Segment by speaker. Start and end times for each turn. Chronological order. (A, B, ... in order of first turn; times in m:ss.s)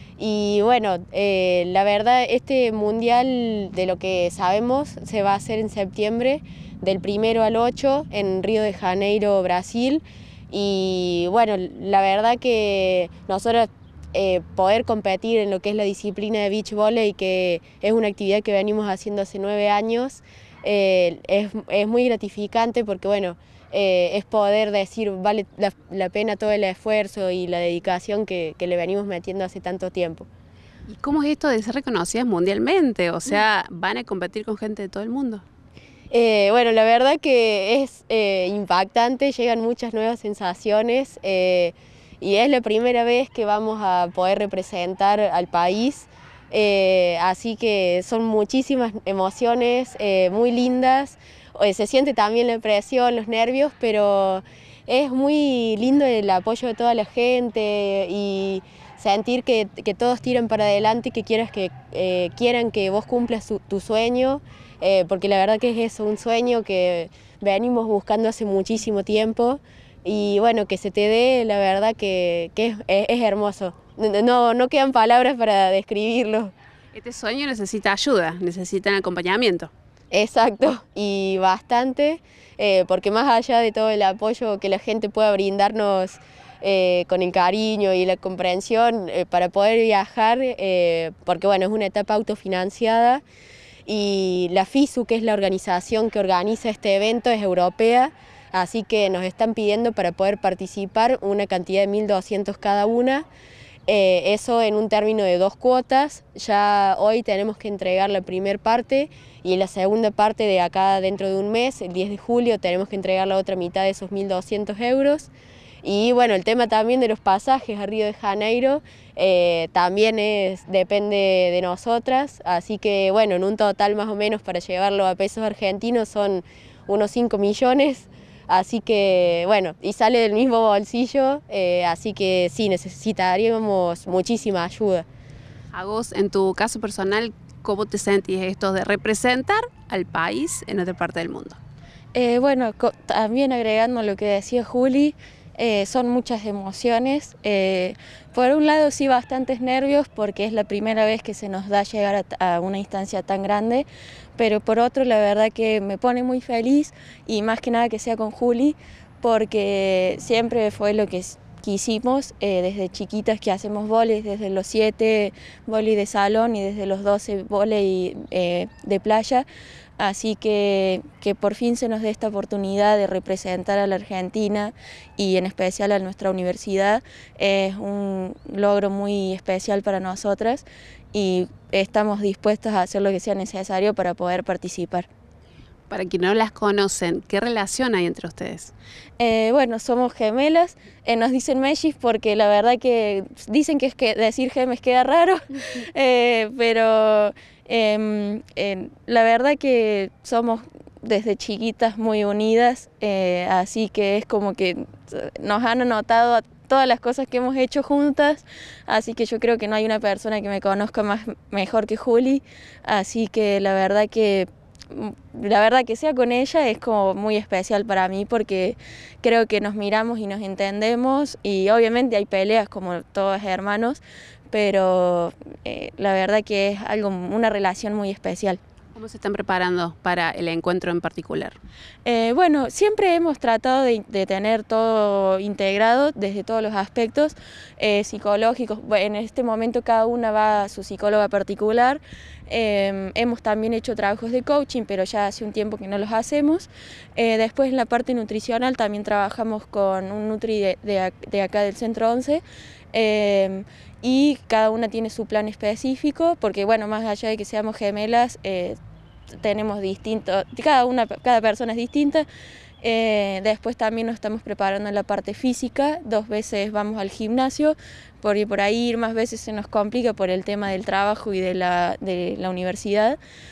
0:00.2-0:30.3 A
0:30.9-0:35.4 B
0:36.1-1:16.5 A
1:16.9-1:19.7 B
1:20.1-1:33.2 A
1:33.8-1:43.2 A
1:43.9-1:55.3 A
1:55.8-2:15.0 A
2:15.7-2:21.6 B
2:22.1-2:33.8 C
2:34.4-2:49.4 C
2:50.0-3:05.1 C
3:05.9-3:08.7 B
3:09.2-3:48.6 C
3:48.9-3:51.6 B
3:52.0-4:18.8 C
4:19.3-4:22.2 C
4:22.8-4:33.2 C